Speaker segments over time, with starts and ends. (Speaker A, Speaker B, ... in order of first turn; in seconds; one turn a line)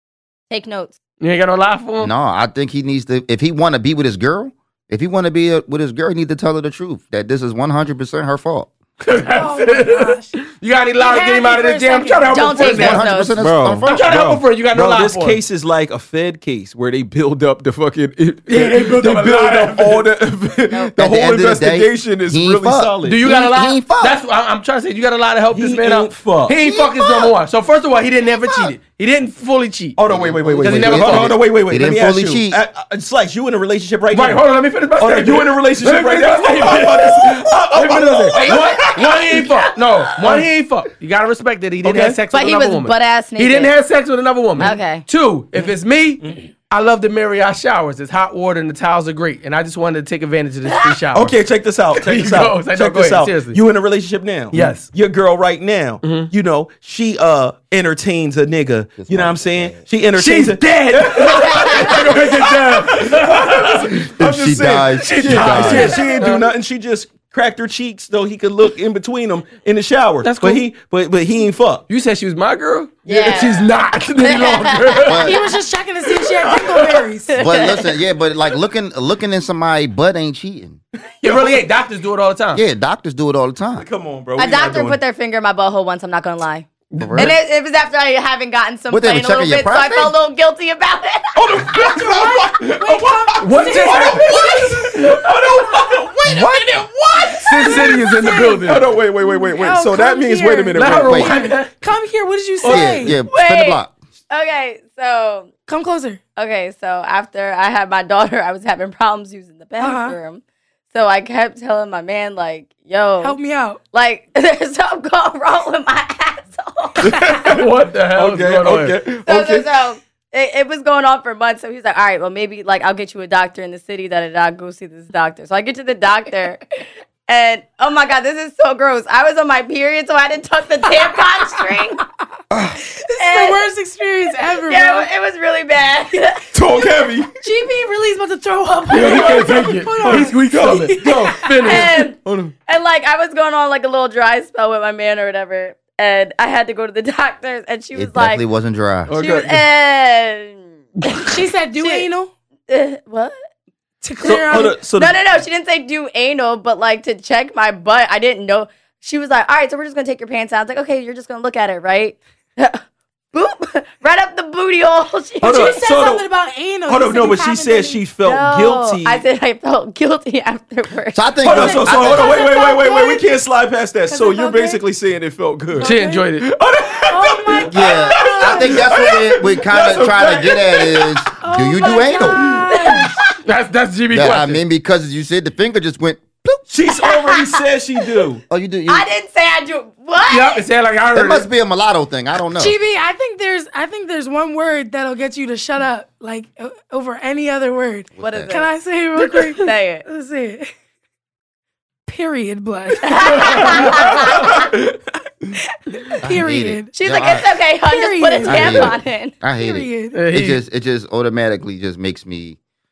Speaker A: 0.5-1.0
Speaker B: 1.2-2.1
Speaker C: 2.0-8.7
Speaker B: 9.0-13.0
Speaker D: 9.3-10.3
Speaker D: 11.0-12.6
Speaker A: 12.3-13.4
Speaker C: 12.6-14.0
Speaker E: 13.4-23.2
Speaker B: 13.8-15.4
Speaker B: 18.5-20.1
Speaker A: 20.7-20.9
Speaker C: 20.9-24.2
Speaker B: 23.0-30.0
Speaker E: 25.5-26.6
Speaker C: 26.7-27.2
Speaker E: 30.0-39.1
Speaker C: 30.1-32.6
Speaker B: 30.6-31.4
Speaker B: 34.1-51.3
Speaker E: 40.2-40.5
Speaker E: 41.8-42.2
Speaker A: 42.3-43.7
Speaker A: 44.6-45.0
Speaker E: 51.1-71.8
Speaker B: 51.9-53.6
Speaker B: 54.5-54.9
Speaker B: 56.0-56.3
Speaker C: 59.0-59.8
Speaker B: 60.1-64.0
Speaker C: 64.2-66.0
Speaker B: 65.0-66.5
Speaker D: 65.6-66.3
Speaker B: 70.2-70.6
Speaker B: 71.9-75.3
Speaker A: 73.0-75.3
Speaker C: 75.1-75.4
Speaker D: 75.2-77.4
Speaker A: 77.3-78.0
Speaker C: 77.4-80.8
Speaker B: 81.2-82.6
Speaker E: 81.2-81.6
Speaker C: 82.5-83.8
Speaker E: 83.8-85.0
Speaker A: 84.3-91.8
Speaker B: 86.9-87.3
Speaker C: 87.0-87.3
Speaker C: 88.9-90.1
Speaker E: 91.3-101.3
Speaker D: 91.9-94.7
Speaker B: 93.4-95.3
Speaker B: 97.5-98.9
Speaker D: 97.6-103.2
Speaker B: 100.7-101.7
Speaker C: 101.1-101.3
Speaker B: 102.6-103.1
Speaker C: 102.6-103.9
Speaker A: 103.2-105.5
Speaker D: 105.7-106.2
Speaker A: 106.3-113.4
Speaker D: 109.8-110.2
Speaker D: 113.2-113.8
Speaker A: 113.9-117.5
Speaker E: 117.0-119.7
Speaker B: 117.4-119.0
Speaker A: 119.2-126.6
Speaker A: 127.3-132.0
Speaker D: 133.0-135.1
Speaker A: 133.2-133.6
Speaker A: 134.6-136.4
Speaker E: 136.5-137.3
Speaker D: 137.4-141.9
Speaker B: 138.9-142.5
Speaker E: 138.9-141.4
Speaker A: 141.6-148.4
Speaker C: 147.9-149.1
Speaker B: 149.1-149.6
Speaker A: 149.1-152.1
Speaker D: 151.2-152.3
Speaker A: 152.7-153.3
Speaker D: 154.0-154.8
Speaker E: 154.2-155.2
Speaker A: 154.3-162.8
Speaker A: 163.3-165.8
Speaker E: 165.4-166.2
Speaker D: 165.4-168.1
Speaker E: 166.9-169.2
Speaker A: 168.2-171.3
Speaker C: 171.1-172.4
Speaker E: 171.4-181.2
Speaker D: 171.4-173.3
Speaker D: 174.1-174.8
Speaker D: 175.7-176.3
Speaker B: 175.8-176.4
Speaker D: 177.1-179.1
Speaker C: 177.7-182.6
Speaker D: 181.4-183.1
Speaker A: 182.7-183.2
Speaker B: 183.4-184.6
Speaker C: 184.1-186.6
Speaker E: 186.7-188.4
Speaker A: 187.0-187.6
Speaker C: 188.5-189.1
Speaker A: 188.9-190.6
Speaker B: 190.3-191.4
Speaker C: 191.1-192.8
Speaker D: 192.5-200.7
Speaker C: 198.1-198.5
Speaker A: 198.2-200.0
Speaker D: 202.1-203.8
Speaker A: 203.1-204.5
Speaker D: 205.7-206.9
Speaker C: 206.2-207.5
Speaker A: 206.9-209.4
Speaker D: 207.8-208.9
Speaker C: 208.4-212.6
Speaker D: 209.5-210.2
Speaker B: 210.1-210.6